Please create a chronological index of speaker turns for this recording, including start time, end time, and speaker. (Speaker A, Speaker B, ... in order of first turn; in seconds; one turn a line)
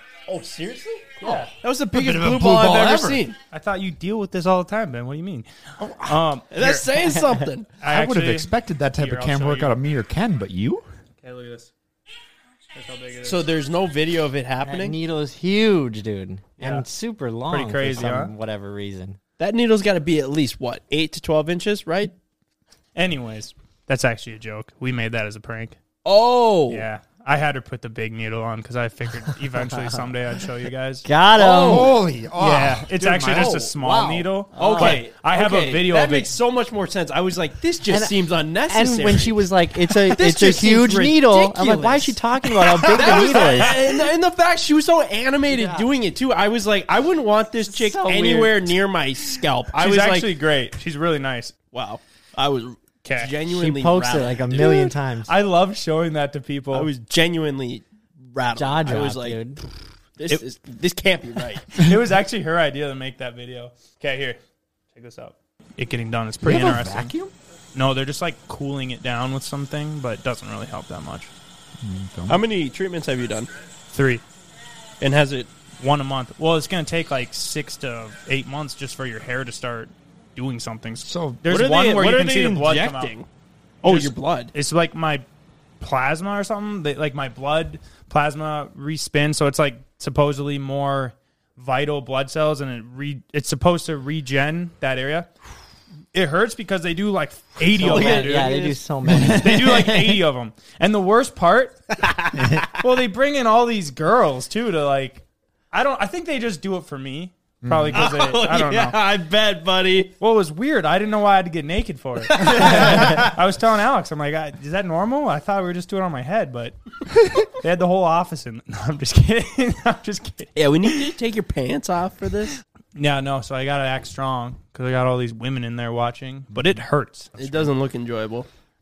Speaker A: 0.3-3.4
Speaker B: 1.2-1.5
Speaker C: 1.9-3.2
Speaker B: 3.5-5.5
Speaker B: 6.0-6.8
Speaker A: 6.5-7.7
Speaker B: 7.8-9.7
Speaker C: 7.9-10.8
Speaker B: 11.2-11.7
Speaker B: 12.7-13.4
Speaker A: 13.2-14.9
Speaker D: 14.6-19.2
Speaker B: 17.5-18.3
Speaker A: 19.4-22.1
Speaker B: 22.9-25.8
Speaker A: 26.0-26.9
Speaker B: 26.7-31.1
Speaker D: 31.0-31.9
Speaker C: 31.4-34.3
Speaker A: 31.5-31.9
Speaker B: 32.4-36.4
Speaker A: 33.3-33.7
Speaker A: 34.5-50.3
Speaker D: 34.6-35.0
Speaker D: 37.9-38.1
Speaker D: 38.7-43.7
Speaker B: 43.0-43.7
Speaker D: 45.5-45.9
Speaker D: 47.6-48.5
Speaker B: 49.8-51.5
Speaker A: 51.7-54.8
Speaker B: 53.0-53.3
Speaker D: 53.5-55.3
Speaker B: 55.2-56.9
Speaker A: 56.7-59.4
Speaker D: 58.5-59.6
Speaker A: 60.2-61.7
Speaker B: 61.7-64.4
Speaker B: 64.9-67.1
Speaker C: 66.4-67.3
Speaker B: 67.7-71.3
Speaker C: 71.8-72.4
Speaker A: 72.3-73.5
Speaker B: 73.9-74.2
Speaker A: 75.0-75.5
Speaker B: 75.8-83.1
Speaker C: 81.0-81.4
Speaker A: 81.5-83.3
Speaker A: 83.8-84.5
Speaker B: 83.8-85.2
Speaker B: 85.8-95.3
Speaker B: 96.1-98.7
Speaker A: 97.7-98.8
Speaker D: 97.7-100.0
Speaker B: 99.2-101.8
Speaker A: 102.0-102.8
Speaker C: 102.3-102.7
Speaker B: 102.8-109.0
Speaker C: 107.6-108.1
Speaker A: 107.9-110.1
Speaker B: 110.2-116.7
Speaker A: 112.3-113.2
Speaker B: 117.4-121.0
Speaker A: 120.5-122.6
Speaker B: 123.0-127.7
Speaker A: 127.4-128.5